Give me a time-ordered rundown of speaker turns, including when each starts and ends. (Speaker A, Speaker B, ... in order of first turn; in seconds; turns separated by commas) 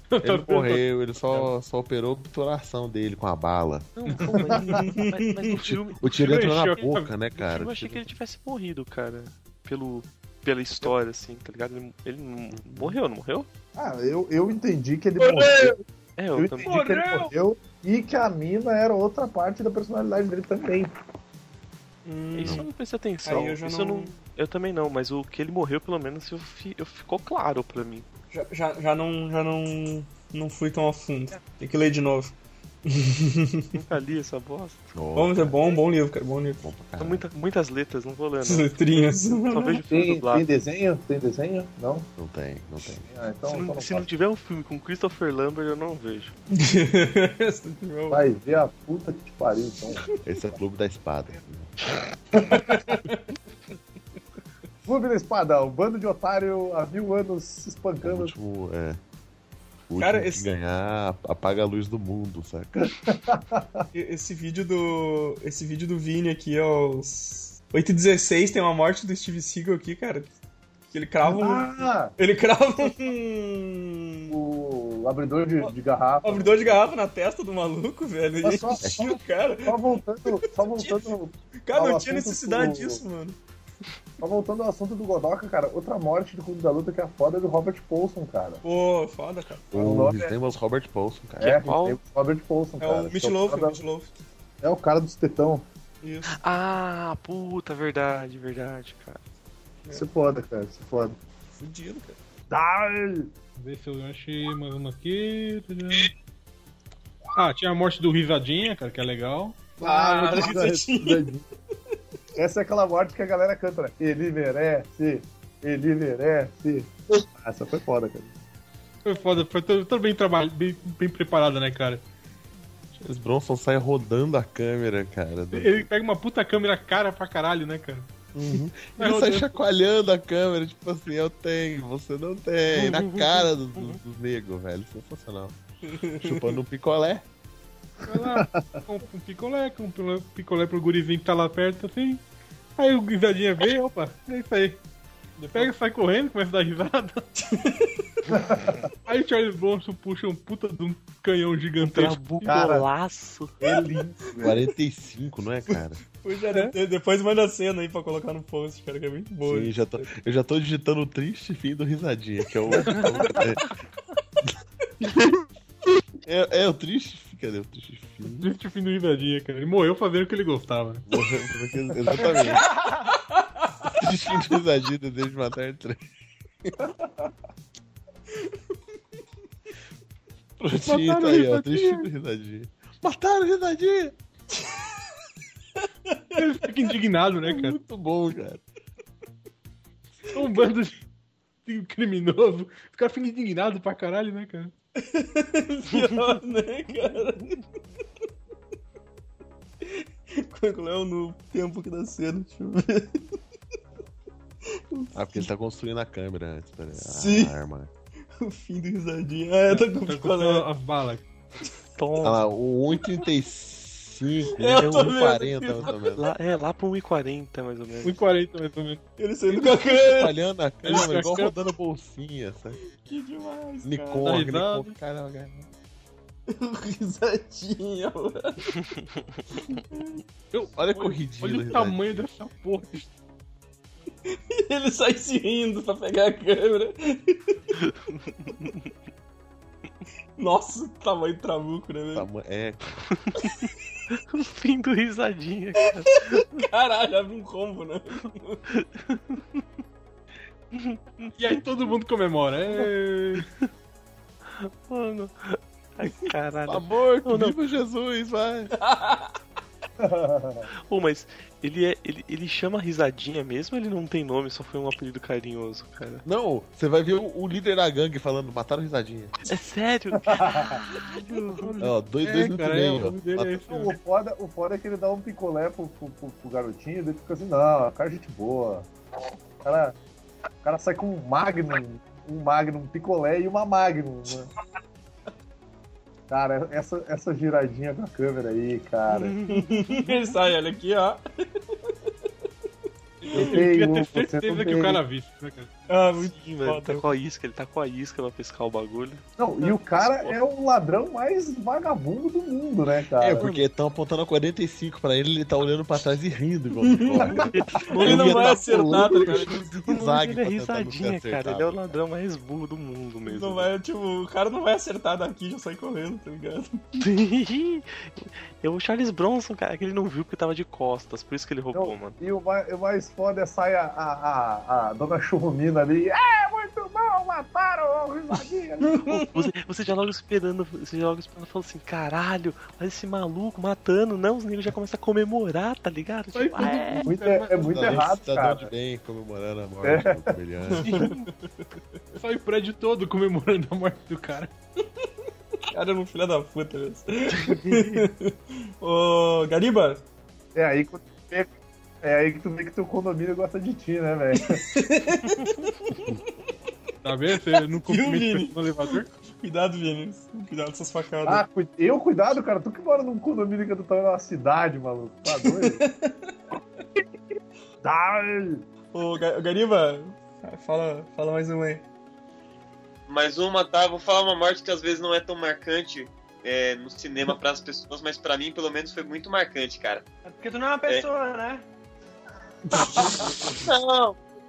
Speaker A: 0.1-1.5, Speaker B: 0.2-3.9, Speaker C: 4.0-13.5, Speaker A: 4.1-4.4, Speaker D: 4.7-5.6, Speaker B: 6.0-8.1, Speaker A: 6.1-7.1, Speaker B: 12.5-13.0, Speaker E: 13.8-15.8, Speaker F: 15.2-15.7, Speaker C: 16.2-16.8, Speaker E: 16.3-20.9, Speaker F: 16.6-17.3, Speaker D: 22.1-22.7, Speaker C: 22.3-28.1, Speaker B: 22.4-22.7, Speaker D: 23.2-24.2, Speaker D: 28.3-33.8, Speaker C: 33.7-34.9, Speaker B: 34.9-35.7, Speaker D: 35.1-36.7, Speaker B: 36.6-37.3, Speaker C: 37.0-40.5, Speaker D: 38.4-39.8, Speaker E: 39.9-42.1, Speaker B: 42.2-43.1, Speaker E: 43.0-44.1, Speaker C: 43.5-46.3, Speaker D: 46.5-48.2, Speaker E: 48.1-50.0, Speaker B: 50.2-51.8, Speaker E: 52.4-52.9, Speaker D: 52.5-53.2, Speaker E: 54.9-58.3, Speaker B: 58.0-59.0, Speaker B: 59.9-62.9, Speaker D: 60.0-60.5, Speaker E: 62.8-63.9, Speaker D: 63.9-70.3, Speaker D: 70.9-74.3, Speaker E: 71.2-72.2, Speaker E: 74.3-76.9, Speaker D: 75.6-81.1, Speaker E: 78.4-83.0, Speaker B: 78.8-79.1, Speaker D: 81.6-83.4, Speaker E: 84.2-88.6, Speaker D: 88.6-89.7, Speaker B: 89.7-91.6, Speaker E: 89.7-90.4, Speaker E: 91.4-93.8, Speaker C: 91.4-92.0, Speaker D: 92.8-94.1, Speaker E: 94.6-95.7, Speaker D: 96.0-96.4, Speaker C: 96.3-99.2, Speaker E: 99.9-101.2, Speaker D: 101.5-102.2, Speaker E: 102.5-103.3, Speaker A: 103.6-106.1, Speaker A: 107.4-109.8, Speaker D: 109.8-111.3, Speaker E: 109.8-111.5, Speaker E: 112.3-118.3, Speaker A: 119.0-122.0, Speaker B: 123.0-125.9, Speaker A: 125.5-128.1, Speaker B: 128.3-135.6, Speaker A: 129.0-129.6, Speaker C: 132.7-134.0, Speaker D: 135.8-136.6, Speaker B: 136.2-137.2, Speaker A: 138.1-142.2, Speaker E: 138.1-138.8, Speaker A: 142.8-144.8, Speaker D: 145.4-145.7, Speaker A: 145.5-147.3, Speaker D: 147.5-147.9, Speaker E: 148.3-148.8, Speaker A: 149.1-152.4, Speaker C: 151.8-153.6, Speaker E: 152.4-152.9, Speaker E: 153.6-154.7, Speaker B: 154.4-156.0, Speaker D: 155.7-159.9, Speaker B: 159.5-163.7, Speaker A: 162.9-163.2, Speaker B: 166.2-168.5, Speaker A: 168.4-171.1, Speaker B: 171.1-172.7, Speaker E: 172.1-172.3, Speaker F: 172.4-173.1, Speaker D: 173.3-173.9, Speaker B: 173.9-176.0, Speaker B: 180.6-184.2, Speaker A: 180.8-182.1, Speaker D: 184.6-184.9, Speaker D: 185.8-186.5, Speaker A: 186.4-187.8, Speaker B: 187.4-188.6, Speaker A: 190.3-191.0, Speaker A: 191.7-194.7, Speaker D: 195.0-197.6, Speaker D: 199.8-203.4, Speaker D: 204.9-205.5, Speaker B: 205.1-207.9, Speaker D: 207.0-207.6, Speaker D: 208.4-210.7, Speaker A: 209.7-211.2, Speaker C: 212.0-212.4, Speaker B: 212.2-216.2, Speaker D: 214.5-216.2, Speaker C: 216.1-218.2, Speaker A: 218.0-219.0, Speaker D: 219.2-220.4, Speaker B: 219.7-222.8, Speaker A: 220.8-221.6, Speaker D: 223.0-224.4, Speaker B: 223.8-225.7, Speaker A: 224.2-224.9, Speaker D: 226.5-228.9, Speaker D: 229.9-230.2, Speaker A: 230.5-233.1, Speaker B: 230.8-232.3, Speaker D: 234.3-237.6, Speaker C: 237.8-238.9, Speaker D: 240.4-242.3, Speaker B: 242.1-243.0, Speaker C: 243.3-246.6, Speaker D: 246.0-248.6, Speaker C: 248.7-249.6, Speaker C: 250.7-251.3, Speaker A: 251.3-253.5, Speaker C: 254.5-257.6, Speaker B: 256.7-258.7, Speaker D: 258.8-259.3, Speaker E: 260.0-260.7, Speaker C: 260.9-266.2, Speaker B: 266.2-269.4, Speaker C: 269.4-271.7, Speaker E: 270.2-270.8, Speaker A: 271.5-274.0, Speaker B: 271.8-273.6, Speaker E: 273.6-278.9, Speaker E: 279.6-280.0, Speaker E: 280.6-284.5, Speaker E: 286.3-289.4, Speaker C: 289.1-290.3, Speaker D: 289.5-292.3, Speaker D: 293.2-293.6, Speaker A: 293.3-295.7, Speaker E: 293.3-295.0, Speaker D: 295.9-297.1, Speaker C: 296.2-300.4, Speaker E: 299.4-303.5, Speaker B: 303.2-312.0, Speaker C: 303.4-303.7, Speaker D: 306.8-309.8, Speaker C: 307.4-313.7, Speaker D: 313.3-316.8, Speaker C: 317.0-322.2, Speaker E: 321.7-329.2, Speaker D: 328.8-329.3, Speaker C: 329.3-337.7, Speaker A: 336.3-337.2, Speaker E: 337.1-338.7, Speaker B: 337.6-341.0, Speaker E: 339.8-340.2, Speaker D: 340.7-341.6, Speaker C: 340.9-341.1, Speaker A: 342.1-344.5, Speaker D: 345.7-350.0, Speaker C: 347.5-347.9, Speaker E: 350.6-351.5, Speaker E: 352.0-354.6, Speaker D: 354.4-356.3, Speaker A: 357.0-359.1, Speaker D: 357.3-361.4, Speaker E: 361.2-365.8, Speaker D: 365.3-366.4, Speaker E: 367.8-368.7, Speaker D: 368.9-371.8, Speaker G: 373.1-380.0, Speaker F: 380.2-381.6, Speaker E: 382.9-383.3, Speaker D: 383.0-383.3, Speaker G: 383.6-384.2